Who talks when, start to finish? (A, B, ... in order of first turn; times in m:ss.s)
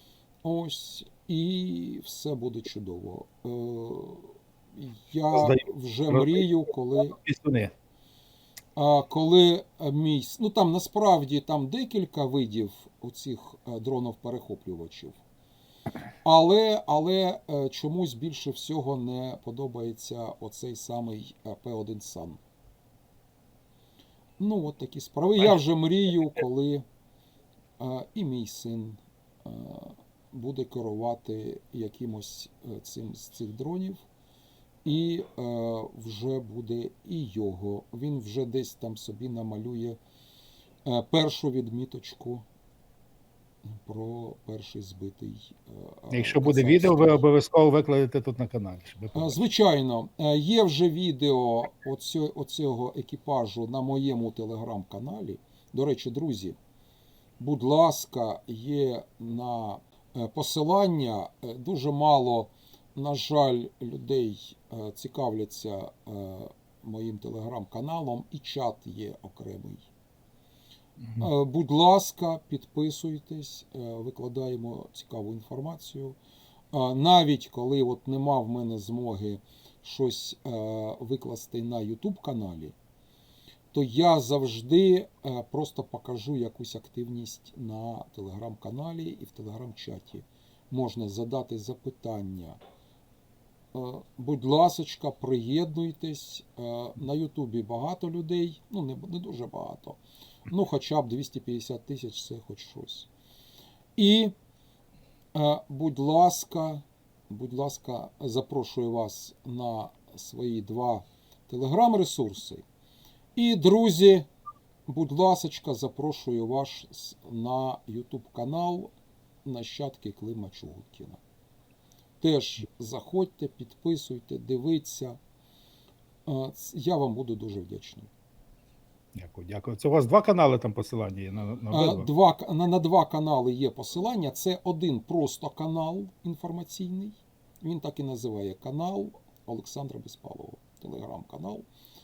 0:00.4-0:07.2 A
0:05.3-0:07.7 B
0:08.7-0:15.2 A
0:16.2-0:22.4 A
0:24.4-0:26.8 A
0:27.8-0:34.0 A
0:34.8-0:40.0 A
0:40.8-0:42.4 A
0:43.7-0:47.2 A
0:46.1-0:49.4 B
0:49.1-0:56.6 A
0:57.4-1:09.9 A
1:11.2-1:16.2 A
1:16.7-1:22.7 A
1:23.7-1:32.6 A
1:33.7-1:43.1 A
1:44.0-1:44.3 A
1:45.3-1:52.6 A
1:53.4-1:54.3 A
1:54.9-1:58.9 A
1:59.4-2:01.2 A
2:02.2-2:05.2 A
2:06.2-2:08.1 A
2:09.2-2:12.1 B
2:11.7-2:21.7 A